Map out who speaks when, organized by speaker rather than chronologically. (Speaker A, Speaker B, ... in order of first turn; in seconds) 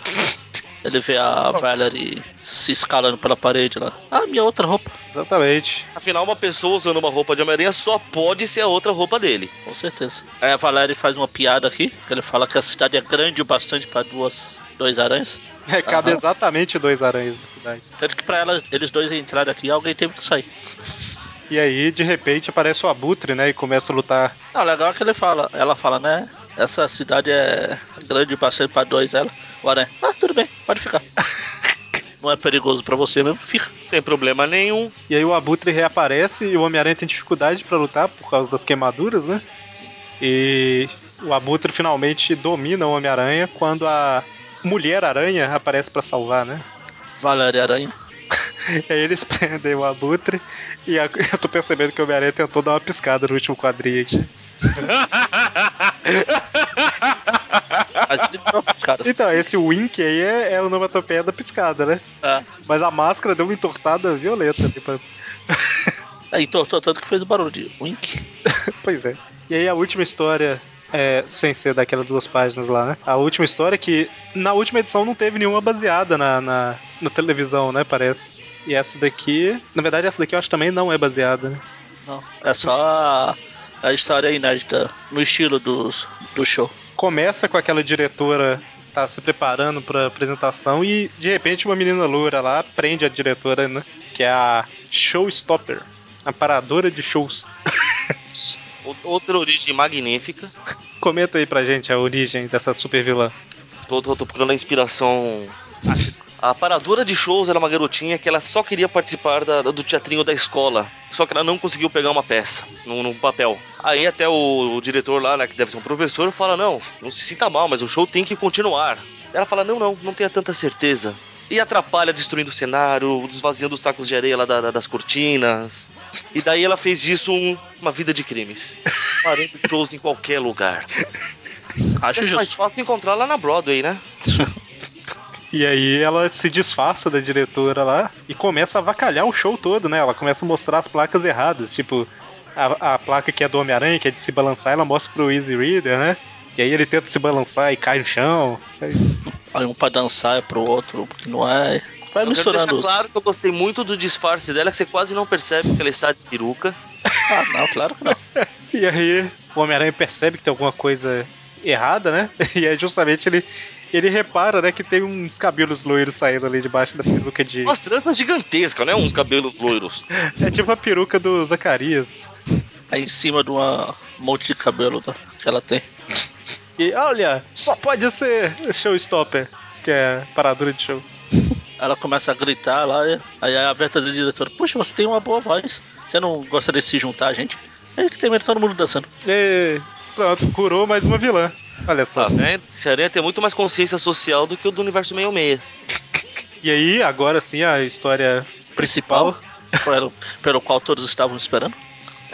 Speaker A: 0.8-4.9, 9.7-16.2, 18.0-20.5, 24.5-31.0, 32.2-33.7, 47.2-47.9, 58.1-59.4, 66.3-68.2, 82.0-86.7, 132.0-132.5, 149.0-153.0, 157.3-158.2, 172.9-175.8, 181.8-189.1, 198.8-201.7
Speaker B: 5.1-5.8, 15.7-17.8, 21.5-24.3, 35.1-39.4, 40.2-46.6, 48.6-54.3, 59.0-62.0, 62.6-65.9, 68.8-81.6, 87.0-97.5, 101.0-103.3, 135.5-149.0, 158.3-167.7, 170.2-172.3, 176.8-181.1, 189.2-192.4, 196.6-199.4
Speaker C: 5.9-9.8, 33.9-34.9, 54.9-58.0, 98.8-100.5, 103.9-105.6, 106.4-130.9, 132.2-134.0, 152.2-156.8, 167.6-170.1, 192.2-195.6